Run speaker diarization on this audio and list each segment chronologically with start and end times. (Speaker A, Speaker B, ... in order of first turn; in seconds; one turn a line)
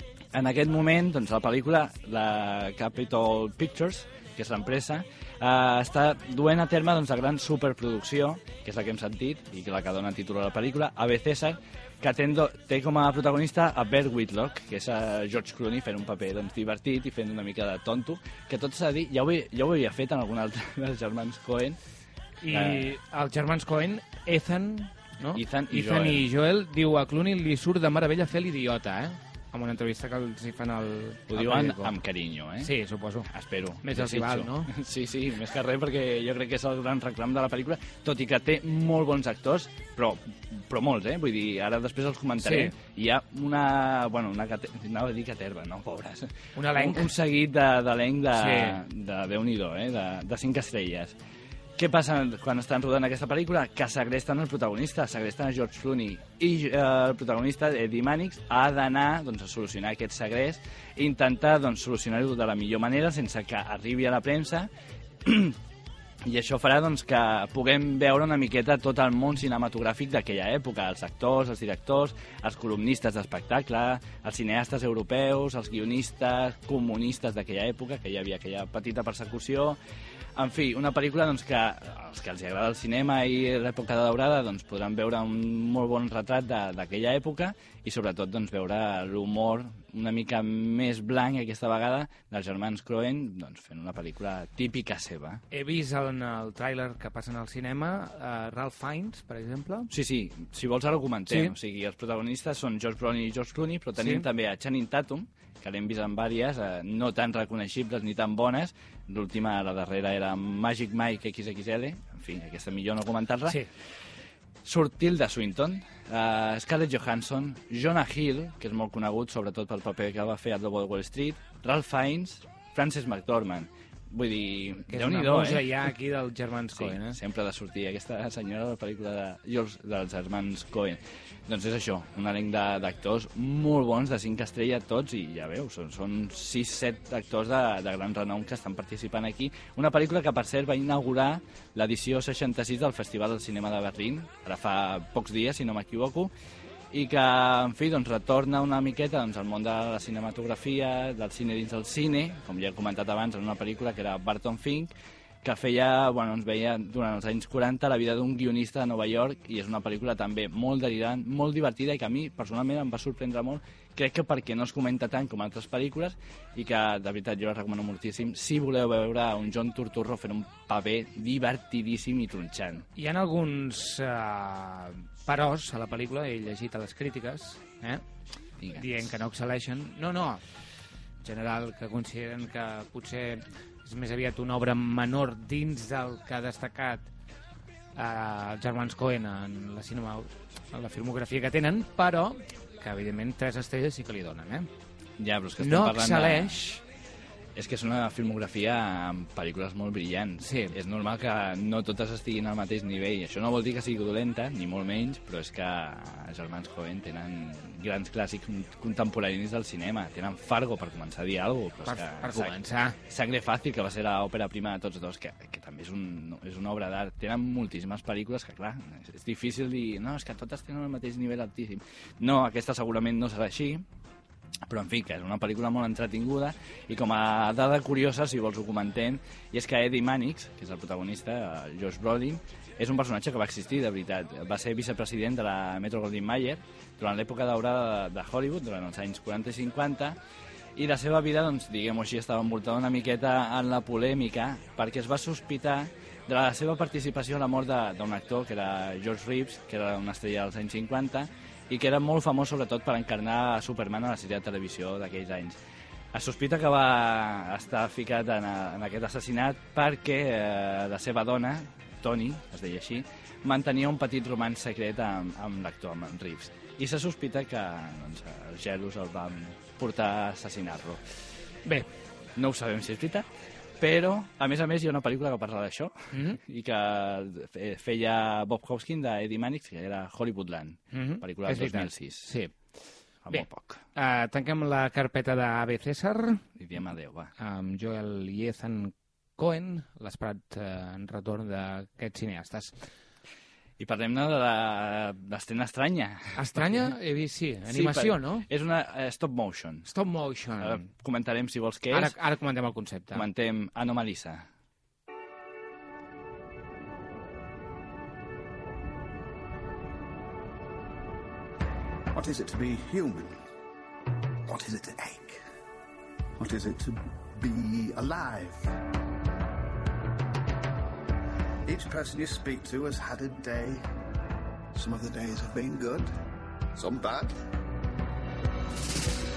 Speaker A: 0.3-21.8
Speaker B: 22.4-32.0
Speaker A: 22.5-23.0
Speaker A: 25.4-26.3
Speaker A: 31.3-32.7
Speaker B: 32.6-33.3
Speaker A: 33.3-51.2
Speaker B: 33.8-34.7
Speaker B: 42.4-42.7
Speaker B: 46.6-47.1
Speaker B: 48.3-48.8
Speaker A: 51.8-64.7
Speaker A: 65.2-65.6
Speaker A: 66.2-79.8
Speaker A: 80.4-95.4
Speaker B: 95.5-99.9
Speaker A: 99.9-113.6
Speaker B: 101.3-101.5
Speaker B: 104.0-104.2
Speaker A: 114.6-125.9
Speaker B: 124.9-127.2
Speaker A: 126.7-146.3
Speaker A: 146.9-172.9
Speaker B: 173.0-178.0
Speaker A: 178.6-179.0
Speaker B: 178.8-180.4
Speaker B: 181.2-187.1
Speaker B: 188.0-194.7
Speaker A: 195.2-196.6
Speaker B: 195.6-196.8
Speaker A: 197.6-223.8
Speaker B: 200.4-200.8
Speaker B: 211.8-213.0
Speaker A: 224.7-240.2
Speaker A: 240.8-255.6
Speaker A: 256.1-271.0
Speaker A: 272.4-273.3
Speaker A: 273.8-282.4
Speaker B: 276.1-276.4
Speaker B: 280.9-282.5
Speaker A: 283.2-283.8
Speaker B: 283.3-286.4
Speaker A: 286.6-287.3
Speaker B: 287.4-292.8
Speaker A: 293.8-296.9
Speaker B: 296.4-298.5
Speaker A: 297.7-299.9
Speaker B: 299.9-300.9
Speaker A: 300.6-302.2
Speaker B: 301.9-303.3
Speaker A: 303.1-304.5
Speaker C: 312.1-313.4
Speaker C: 314.5-315.4
Speaker C: 316.4-318.8
Speaker C: 321.7-323.9
Speaker C: 324.7-326.1
Speaker C: 326.8-327.4